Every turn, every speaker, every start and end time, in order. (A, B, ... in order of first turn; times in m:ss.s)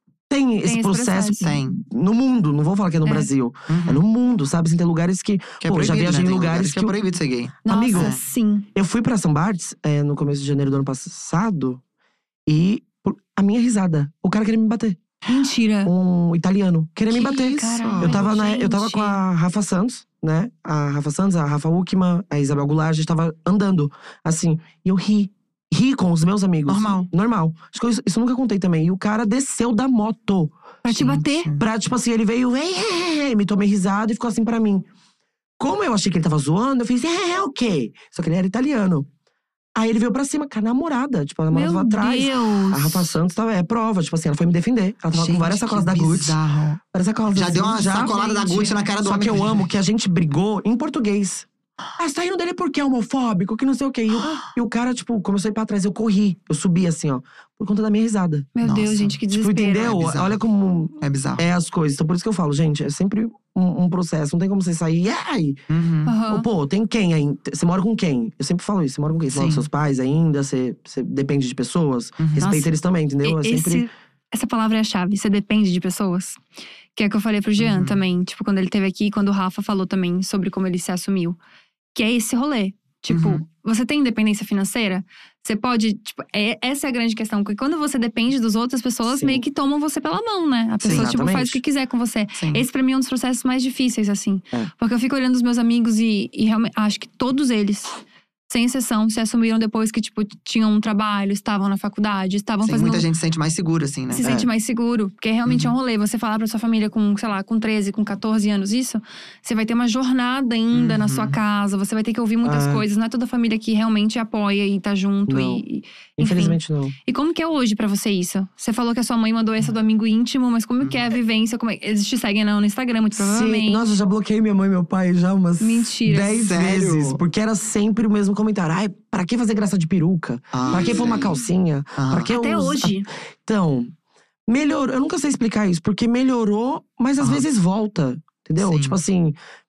0:00.3-0:07.0 A
0:00.6-0:01.5 B
0:01.4-0:01.8 C
0:03.7-0:04.0 C
0:05.6-0:08.2 C
0:07.6-0:08.7 B
0:07.7-0:08.2 A
0:08.7-0:11.8 A
0:12.5-0:15.0 A
0:15.3-0:15.9 B
0:15.8-0:30.5 A
0:17.1-0:19.2 B
0:17.5-0:18.2 C
0:26.7-0:27.1 C
0:30.8-0:31.5 B
0:30.9-0:31.6 C
0:31.6-0:34.9 A
0:35.6-0:39.1 A
0:39.8-0:46.4 A
0:41.5-0:43.1 B
0:45.1-0:46.8 C
0:46.9-0:48.2 A
0:47.3-0:49.7 C
0:47.8-0:48.8 B
0:49.0-0:51.5 A
0:52.0-0:58.5 A
0:58.6-1:00.0 B
0:58.6-0:59.2 C
0:59.3-1:05.6 A
0:59.8-1:00.4 C
1:01.0-1:01.4 C
1:05.7-1:06.1 C
1:06.1-1:06.5 B
1:06.2-1:13.9 A
1:09.3-1:09.7 C
1:12.2-1:12.5 C
1:12.4-1:12.7 B
1:13.2-1:16.4 B
1:17.0-1:21.4 B
1:17.6-1:18.0 C
1:22.0-1:43.1 B
1:23.1-1:23.4 C
1:29.1-1:29.4 A
1:30.8-1:31.1 C
1:30.8-1:31.6 A
1:32.4-1:32.6 C
1:42.6-1:44.3 C
1:44.1-2:03.9 B
1:45.5-1:45.8 C
1:50.7-1:51.4 C
1:52.4-1:52.9 A
1:55.3-1:55.6 A
1:56.2-1:57.0 A
2:00.8-2:01.1 C
2:03.2-2:13.9 A
2:05.6-2:06.4 B
2:06.4-2:07.2 C
2:10.5-2:11.3 C
2:10.7-2:11.3 B
2:12.0-2:12.3 C
2:12.3-2:13.1 B
2:14.5-2:19.4 A
2:18.6-2:19.0 C